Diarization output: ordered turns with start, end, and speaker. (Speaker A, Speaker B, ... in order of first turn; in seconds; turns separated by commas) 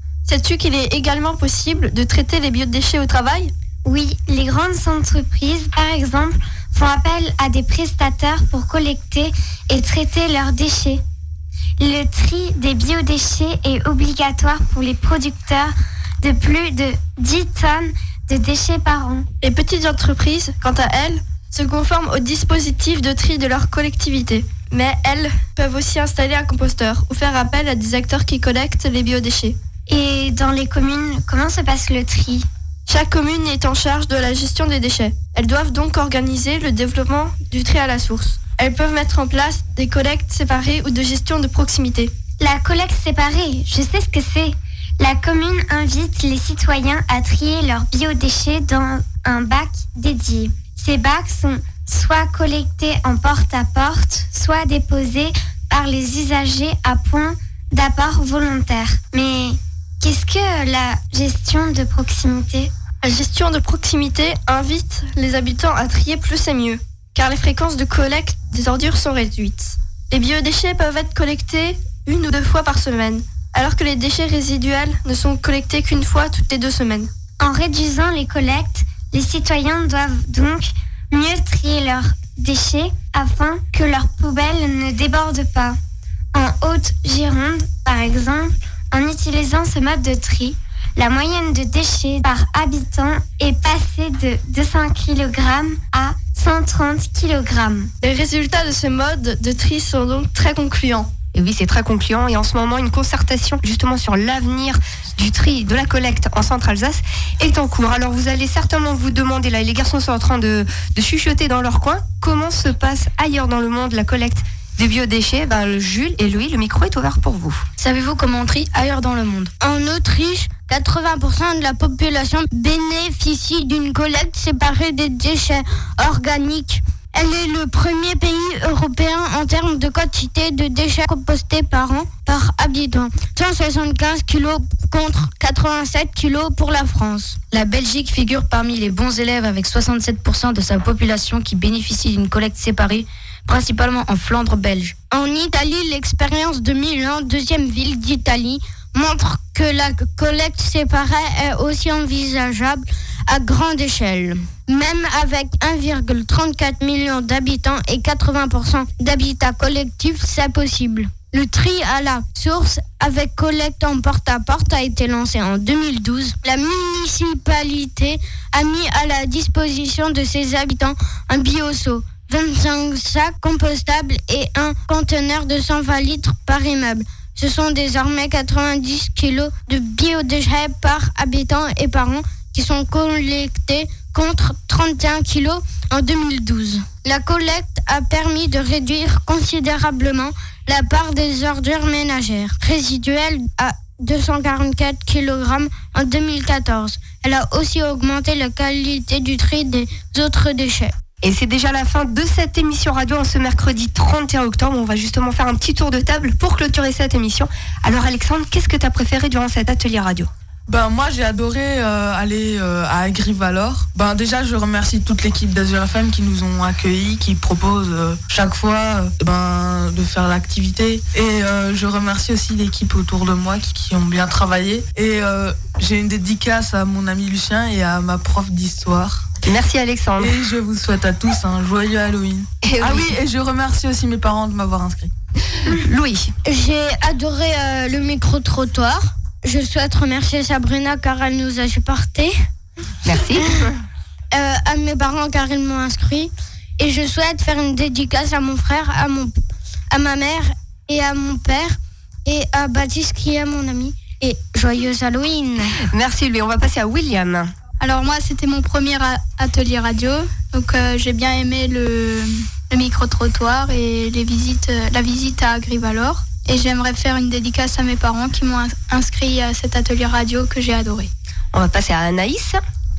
Speaker A: 0.3-3.5, Speaker B: 3.9-11.0, Speaker B: 11.8-19.3, Speaker A: 19.4-29.6, Speaker B: 29.9-32.5, Speaker A: 32.9-42.1, Speaker B: 42.4-62.7, Speaker A: 63.0-77.1, Speaker B: 77.4-85.8, Speaker B: 86.3-97.9, Speaker A: 98.0-101.1, Speaker C: 101.3-117.6, Speaker D: 117.8-119.5, Speaker E: 119.6-137.4, Speaker D: 137.5-144.9, Speaker E: 145.1-200.9, Speaker C: 201.2-210.3, Speaker F: 210.7-229.3, Speaker C: 229.5-230.3, Speaker F: 230.2-235.1, Speaker C: 232.6-233.2, Speaker C: 235.7-236.3, Speaker E: 236.4-242.4, Speaker C: 243.0-243.7, Speaker E: 244.3-249.3, Speaker E: 249.9-255.8, Speaker C: 255.9-257.5, Speaker G: 257.8-271.1, Speaker C: 271.5-272.6